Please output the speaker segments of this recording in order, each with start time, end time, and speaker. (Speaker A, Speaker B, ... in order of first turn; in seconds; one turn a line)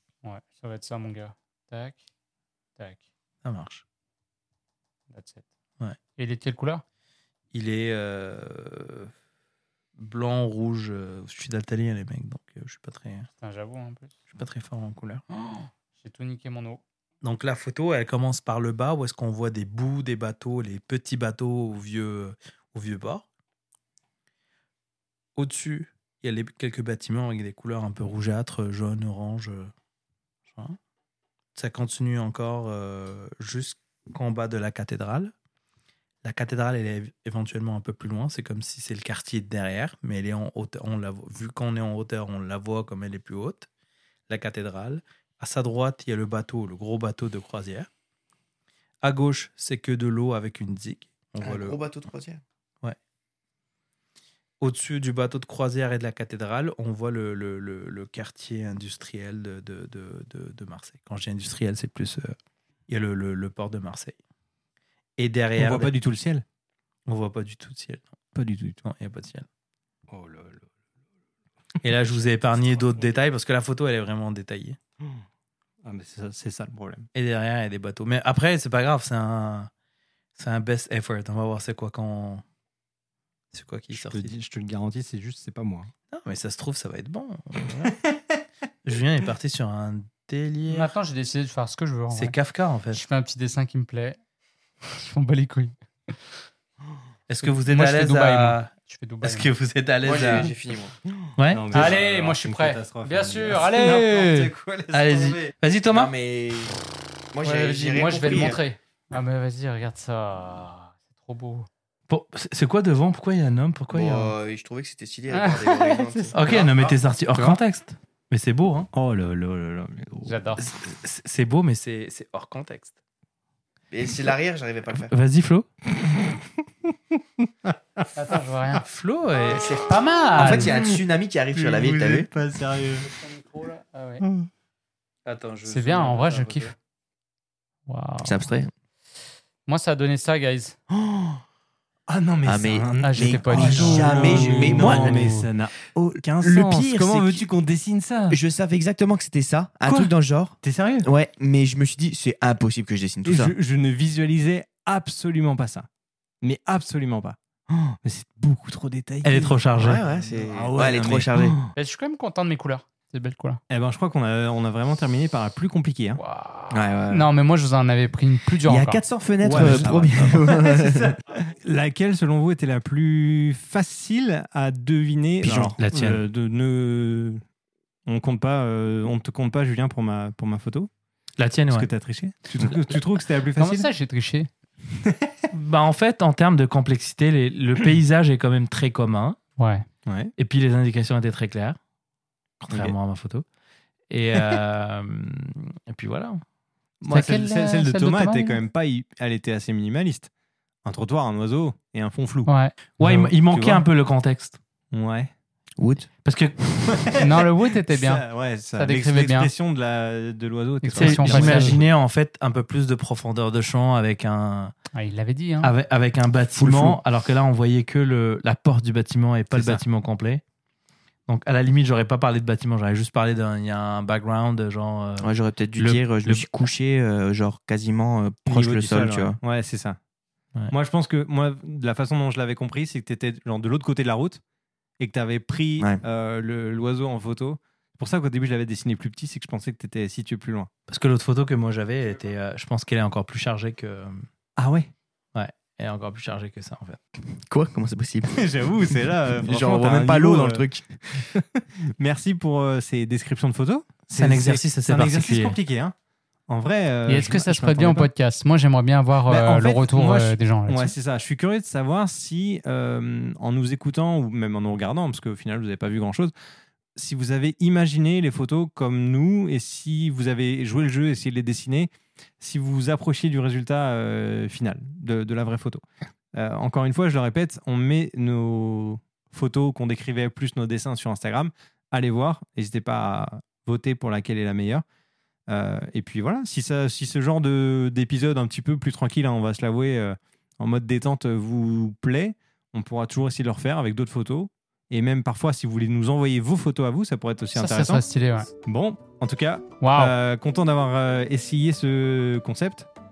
Speaker A: 0.2-2.0
Speaker A: 2.8-3.0
Speaker B: 3.4-3.8
Speaker A: 5.1-5.4
Speaker A: 6.2-6.8
Speaker B: 7.5-9.1
Speaker B: 10.0-13.3
Speaker A: 13.4-14.1
Speaker B: 14.3-15.2
Speaker A: 15.3-16.8
Speaker B: 17.2-23.3
Speaker B: 25.4-29.7
Speaker B: 30.5-30.8
Speaker B: 31.5-35.3
Speaker B: 36.2-43.7
Speaker B: 44.3-47.9
Speaker B: 49.0-51.8
Speaker C: 51.4-52.4
Speaker B: 54.6-62.3
Speaker B: 62.9-64.2
Speaker B: 65.2-65.9
Speaker D: 65.6-66.4
Speaker B: 67.1-68.0
Speaker D: 68.3-68.8
Speaker B: 68.8-69.5
Speaker D: 70.1-70.7
Speaker D: 71.8-73.0
Speaker B: 71.8-74.8
Speaker D: 75.8-77.1
Speaker B: 77.1-79.7
Speaker B: 80.4-82.4
Speaker B: 83.5-84.3
Speaker D: 83.9-85.9
Speaker B: 86.1-88.0
Speaker D: 87.8-88.4
Speaker B: 88.8-90.9
Speaker A: 90.7-92.3
Speaker B: 92.1-93.0
Speaker A: 92.9-94.2
Speaker A: 94.8-96.2
Speaker B: 97.3-98.7
Speaker A: 97.7-99.5
Speaker B: 99.2-100.5
Speaker C: 100.0-101.3
Speaker B: 101.4-101.9
Speaker D: 101.5-105.5
Speaker A: 101.7-104.5
Speaker B: 104.9-106.1
Speaker C: 105.9-106.8
Speaker C: 107.3-108.6
Speaker A: 107.4-111.7
Speaker B: 112.1-114.3
Speaker C: 113.9-116.9
Speaker A: 115.3-116.3
Speaker B: 116.3-118.9
Speaker D: 117.3-117.6
Speaker D: 118.9-120.4
Speaker A: 120.2-120.6
Speaker B: 120.6-122.9
Speaker C: 123.9-125.1
Speaker B: 125.1-125.7
Speaker D: 126.2-128.3
Speaker A: 128.1-128.8
Speaker B: 128.8-129.9
Speaker A: 129.5-130.7
Speaker C: 130.3-132.3
Speaker D: 130.4-133.1
Speaker A: 133.0-134.2
Speaker D: 134.2-134.5
Speaker B: 135.2-136.7
Speaker A: 135.7-136.7
Speaker A: 137.9-138.5
Speaker C: 138.2-138.7
Speaker A: 139.7-140.8
Speaker C: 140.9-141.4
Speaker D: 142.1-148.4
Speaker C: 142.4-145.3
Speaker A: 143.0-145.5
Speaker C: 146.4-147.4
Speaker C: 148.3-153.5
Speaker D: 149.8-151.1
Speaker D: 153.2-155.9
Speaker D: 156.4-157.4
Speaker C: 157.7-157.9
Speaker D: 158.0-161.6
Speaker B: 159.2-160.4
Speaker C: 159.8-161.7
Speaker A: 161.8-163.6
Speaker D: 163.7-166.2
Speaker A: 166.2-169.0
Speaker C: 166.7-167.3
Speaker C: 168.7-171.2
Speaker D: 169.4-177.4
Speaker B: 169.6-169.9
Speaker B: 175.4-176.2
Speaker D: 178.1-180.9
Speaker B: 181.4-181.9
Speaker D: 181.7-183.9
Speaker A: 183.6-184.5
Speaker D: 184.9-185.4
Speaker B: 185.5-189.4
Speaker A: 189.6-189.8
Speaker D: 190.1-190.3
Speaker B: 190.4-191.8
Speaker B: 192.6-193.4
Speaker B: 194.1-196.4
Speaker D: 194.3-194.6
Speaker D: 197.0-200.3
Speaker A: 197.1-198.6
Speaker D: 200.8-203.8
Speaker A: 202.5-202.8
Speaker B: 203.0-204.6
Speaker D: 204.9-205.3
Speaker C: 205.8-206.1
Speaker B: 206.2-207.1
Speaker D: 206.8-211.8
Speaker A: 207.2-209.5
Speaker A: 210.8-211.8
Speaker C: 210.9-211.2
Speaker B: 211.0-214.7
Speaker A: 214.9-215.7
Speaker B: 215.6-220.4
Speaker D: 216.5-217.0
Speaker D: 219.5-219.8
Speaker B: 221.3-226.5
Speaker C: 225.2-229.4
Speaker D: 228.4-230.0
Speaker D: 230.7-234.4
Speaker D: 235.0-240.7
Speaker B: 240.9-244.2
Speaker D: 244.6-244.9
Speaker B: 245.3-247.0
Speaker C: 247.3-251.3
Speaker D: 248.3-250.6
Speaker D: 251.2-255.9
Speaker B: 254.1-255.6
Speaker D: 256.5-258.1
Speaker A: 257.1-260.9
Speaker D: 259.3-266.3
Speaker D: 266.9-275.8
Speaker D: 276.3-284.8
Speaker D: 285.5-298.0
Speaker A: 297.5-298.5
Speaker D: 298.6-302.9
Speaker A: 299.8-300.1